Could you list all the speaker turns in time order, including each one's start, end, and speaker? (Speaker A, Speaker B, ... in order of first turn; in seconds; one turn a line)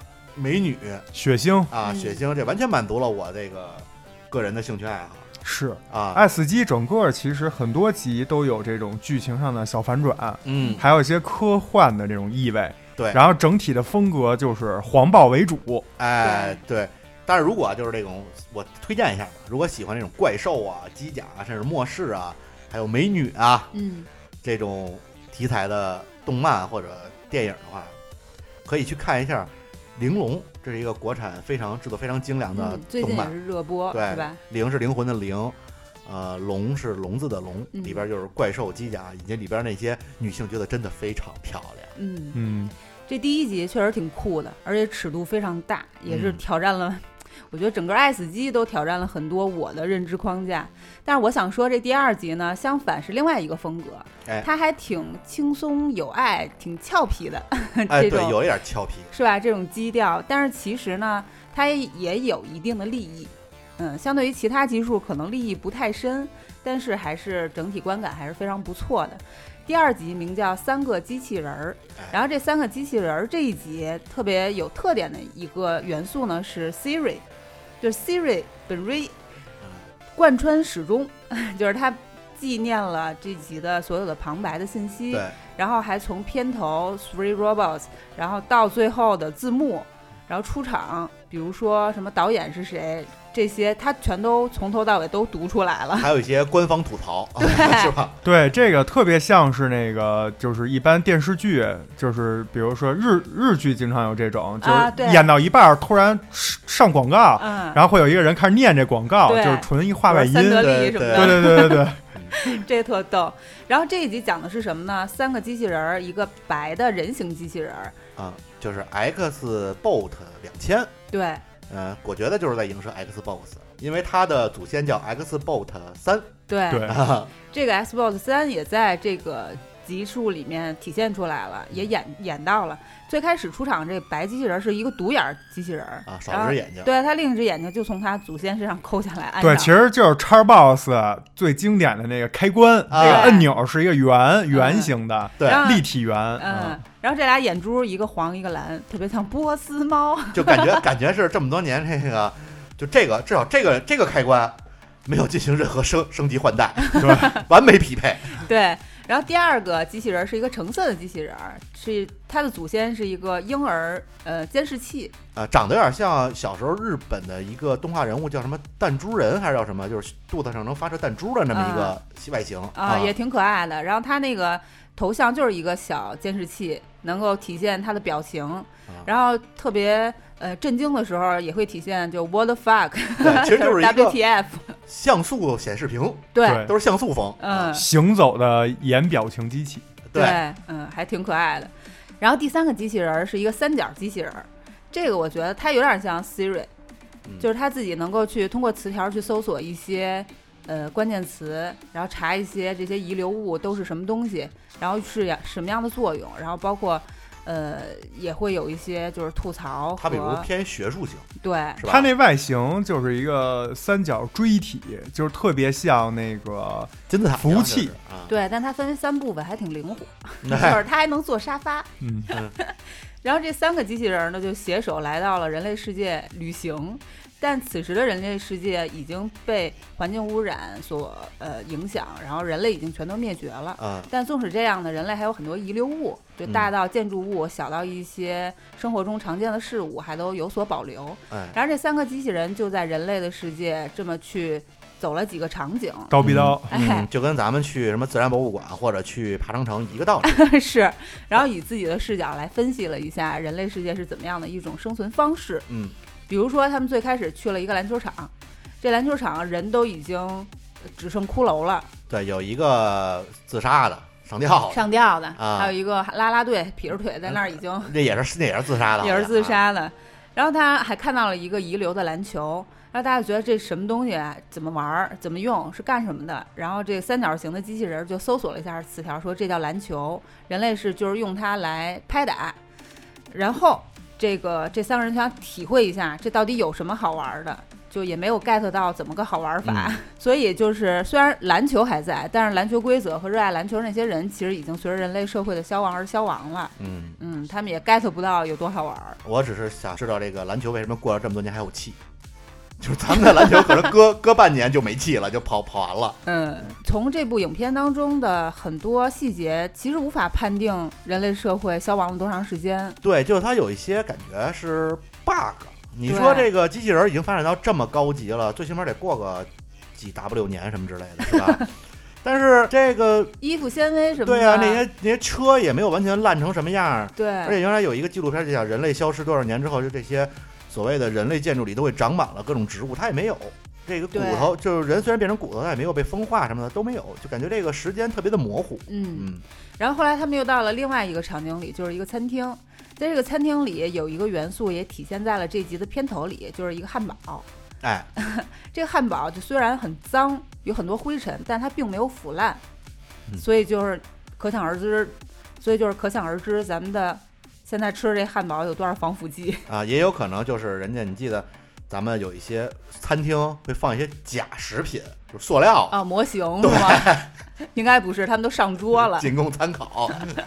Speaker A: 0.3-1.1
Speaker B: 1.1-1.7
Speaker A: 1.7-5.3
Speaker C: 1.8-2.2
Speaker B: 5.4-15.9
Speaker A: 5.9-6.2
Speaker A: 10.4-10.8
Speaker A: 16.0-23.7
Speaker C: 16.2-16.6
Speaker C: 23.7-24.1
Speaker A: 24.4-28.0
Speaker A: 28.6-33.3
Speaker C: 32.5-34.4
Speaker A: 33.9-41.9
Speaker C: 37.7-38.0
Speaker C: 42.0-42.4
Speaker B: 42.4-42.7
Speaker C: 43.1-58.4
Speaker A: 46.1-46.4
Speaker A: 57.9-59.1
Speaker C: 59.1-77.2
Speaker C: 77.8-79.2
Speaker A: 79.6-79.9
Speaker C: 80.1-96.1
Speaker A: 85.1-85.4
Speaker A: 96.0-98.2
Speaker C: 97.4-97.9
Speaker B: 98.2-112.0
Speaker C: 104.6-105.3
Speaker C: 107.4-107.8
Speaker C: 109.3-118.0
Speaker A: 110.6-111.6
Speaker A: 118.2-120.9
Speaker C: 121.1-121.4
Speaker A: 121.7-127.3
Speaker C: 126.5-127.0
Speaker B: 126.7-127.0
Speaker C: 127.5-139.7
Speaker A: 136.1-136.9
Speaker B: 139.4-146.6
Speaker A: 142.9-143.4
Speaker C: 143.0-143.5
Speaker C: 144.5-145.9
Speaker C: 146.4-150.8
Speaker A: 146.5-146.8
Speaker A: 150.3-158.4
Speaker C: 156.8-157.4
Speaker B: 157.0-157.3
Speaker C: 158.4-165.1
Speaker A: 165.3-173.1
Speaker C: 171.5-172.0
Speaker C: 172.7-184.8
Speaker A: 183.2-184.2
Speaker A: 184.9-187.8
Speaker C: 186.3-186.7
Speaker B: 186.4-186.7
Speaker C: 187.4-187.8
Speaker B: 187.7-189.9
Speaker A: 190.1-190.4
Speaker C: 190.1-196.7
Speaker C: 197.4-210.5
Speaker A: 210.0-212.1
Speaker C: 211.4-211.8
Speaker B: 211.8-217.9
Speaker A: 217.1-218.3
Speaker C: 218.3-246.1
Speaker A: 220.4-220.8
Speaker B: 222.0-222.3
Speaker A: 233.8-234.1
Speaker A: 241.3-241.6
Speaker B: 246.1-246.7
Speaker A: 246.2-250.4
Speaker C: 246.7-247.1
Speaker C: 250.2-255.7
Speaker A: 255.7-255.9
Speaker C: 256.3-261.9
Speaker A: 262.1-265.7
Speaker C: 264.7-267.9
Speaker A: 267.3-269.6
Speaker C: 269.0-282.6
Speaker C: 283.3-299.2
Speaker A: 289.6-290.0
Speaker A: 296.8-297.2
Speaker A: 299.2-302.0
Speaker A: 302.8-306.2
Speaker C: 306.2-313.0
Speaker A: 313.0-321.7
Speaker C: 316.1-316.5
Speaker A: 322.2-323.4
Speaker C: 323.4-324.9
Speaker A: 324.2-339.4
Speaker C: 327.2-327.6
Speaker C: 334.1-334.5
Speaker C: 338.9-347.4
Speaker A: 347.8-348.1
Speaker C: 348.2-352.6
Speaker C: 353.4-359.7
Speaker A: 359.7-366.0
Speaker C: 365.9-369.3
Speaker A: 366.6-367.3
Speaker A: 368.9-370.4